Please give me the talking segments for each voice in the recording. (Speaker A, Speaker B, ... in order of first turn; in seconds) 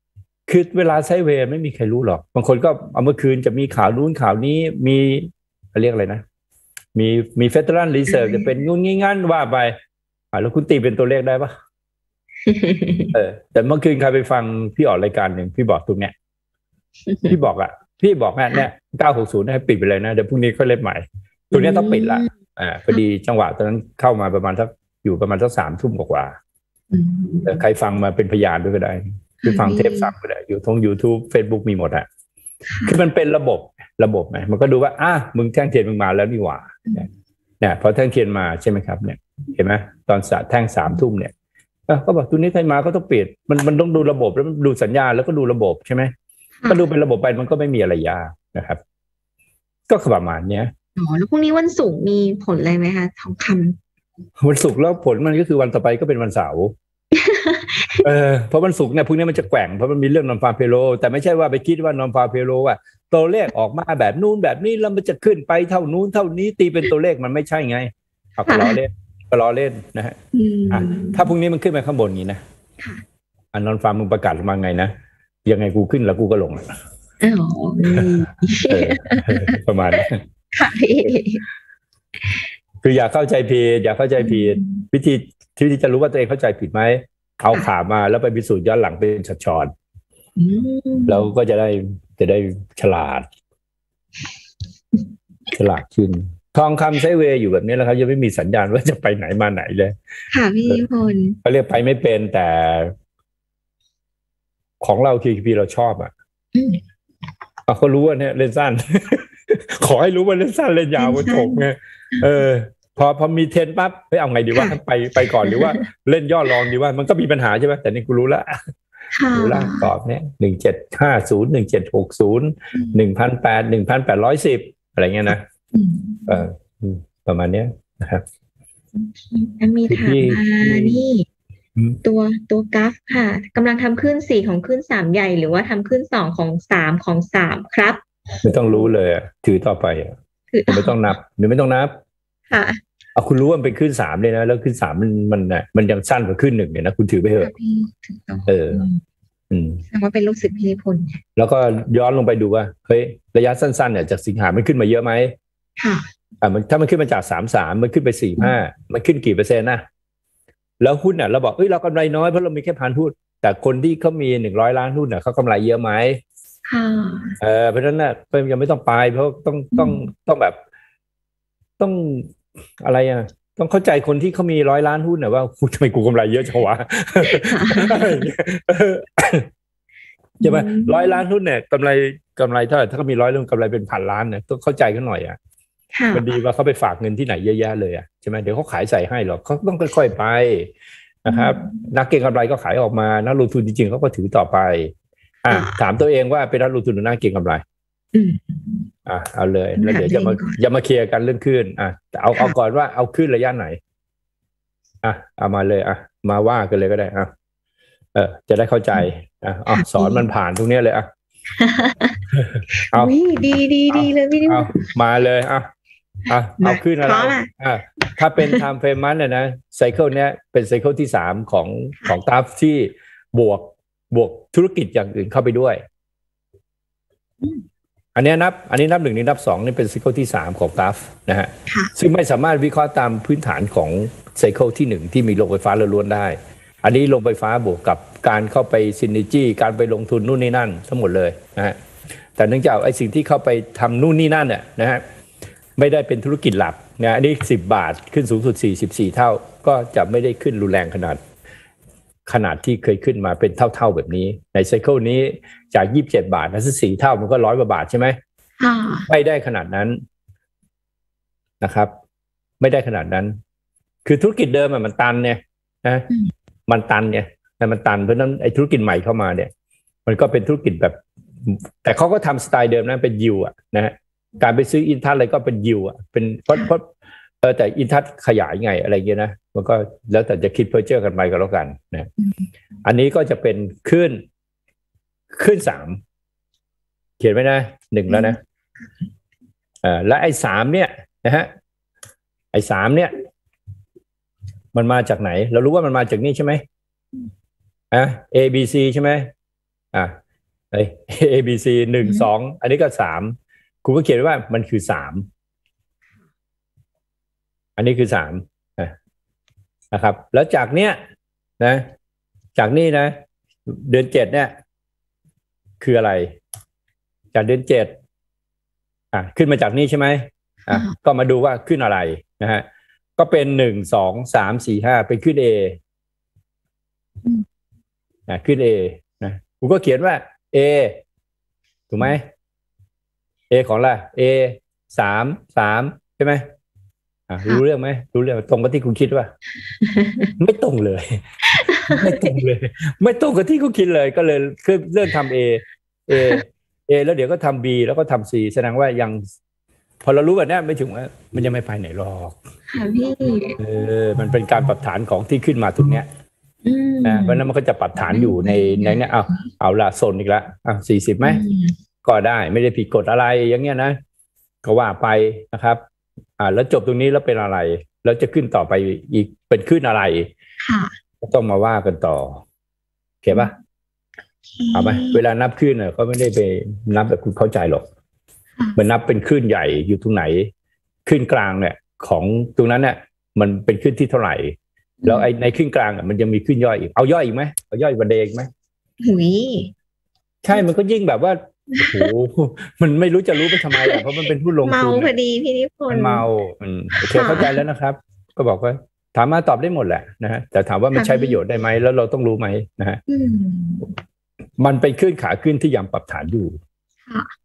Speaker A: 0.5-6.2, 6.9-9.8, 10.3-11.5, 13.1-16.1, 17.3-26.3, 27.4-32.0, 32.9-37.0, 37.6-41.3, 41.9-46.1, 46.7-48.8, 49.9-50.7, 54.4-56.7, 58.0-70.2, 70.7-72.4, 73.5-74.9, 75.4-76.7, 78.7-80.2, 82.8-89.7, 91.1-93.2, 95.5-100.0, 101.4-102.9, 104.8-106.1, 107.7-118.6, 119.3-125.4, 126.3-128.2, 129.9-131.0, 138.4-140.1, 140.7-141.9, 143.2-147.5, 148.5-148.8, 149.5-149.8, 151.3-155.3, 156.4-159.8, 160.8-166.2, 167.4-170.6, 171.8-179.5, 180.4-185.4, 186.1-190.7, 191.2-194.9, 195.4-197.6, 199.1-203.8, 205.0-207.3, 208.1-211.1, 212.3-213.1, 213.9-215.7, 216.3-225.8, 228.1-241.8, 242.4-245.0, 245.8-251.2, 252.2-258.2, 259.1-260.0, 261.6-261.9, 262.6-263.4, 264.0-266.1, 266.7-269.5, 270.1-276.9, 277.4-282.1, 282.8-284.2, 285.3-286.0, 287.2-288.4, 289.8-291.5, 292.5-293.1, 294.7-296.6, 297.9-299.3, 300.7-305.3, 307.8-308.9, 309.9-311.0, 311.6-311.9, 312.6-313.1, 313.7-314.5, 315.8-316.3, 317.3-317.9, 319.1-322.6, 323.2-325.8, 328.3-331.0, 331.9-332.2, 333.5-336.4, 337.3-339.3, 340.4-349.2, 350.0-352.4, 353.6-356.1, 357.0-361.4, 362.0-364.0, 364.6-365.8, 366.4-370.3, 371.2-372.4, 373.2-373.5, 374.7-377.8, 378.8-380.5, 381.1-384.5, 385.1-388.5, 390.4-395.1, 395.9-403.0, 404.6-406.6
Speaker B: 8.1-8.5, 12.4-13.1, 17.1-17.4, 21.5-22.3, 26.9-27.6, 29.4-30.1, 32.7-33.0, 46.6-46.9, 51.0-53.8, 57.1-58.1, 68.4-68.8, 70.3-71.3, 77.2-81.4, 84.2-84.8, 90.4-91.3, 100.3-101.4, 106.5-106.8, 111.0-112.2, 114.5-115.8, 119.1-119.9, 122.7-123.0, 125.7-126.5, 128.9-131.2, 132.0-138.0, 140.5-141.1, 142.5-142.8, 147.4-149.0, 149.9-151.2, 155.8-156.0, 166.7-167.3, 169.7-170.0, 177.2-178.2, 180.4-181.2, 185.9-186.3, 191.3-191.8, 195.5-195.8, 198.1-198.9, 199.7-200.6, 209.7-210.3, 211.6-212.2, 212.7-214.9, 216.3-217.5, 231.7-231.9, 258.6-259.1, 282.2-282.5, 288.1-288.4, 302.0-302.3, 320.7-320.9, 339.8-340.3, 341.5-342.3, 346.1-346.4, 352.7-353.6, 356.6-357.4, 358.1-359.4, 361.2-361.8, 370.6-370.9, 374.5-375.2, 385.0-385.3, 389.0-389.7, 391.7-392.1, 393.4-394.0, 394.6-396.2, 396.9-397.6, 400.9-401.4, 403.1-403.9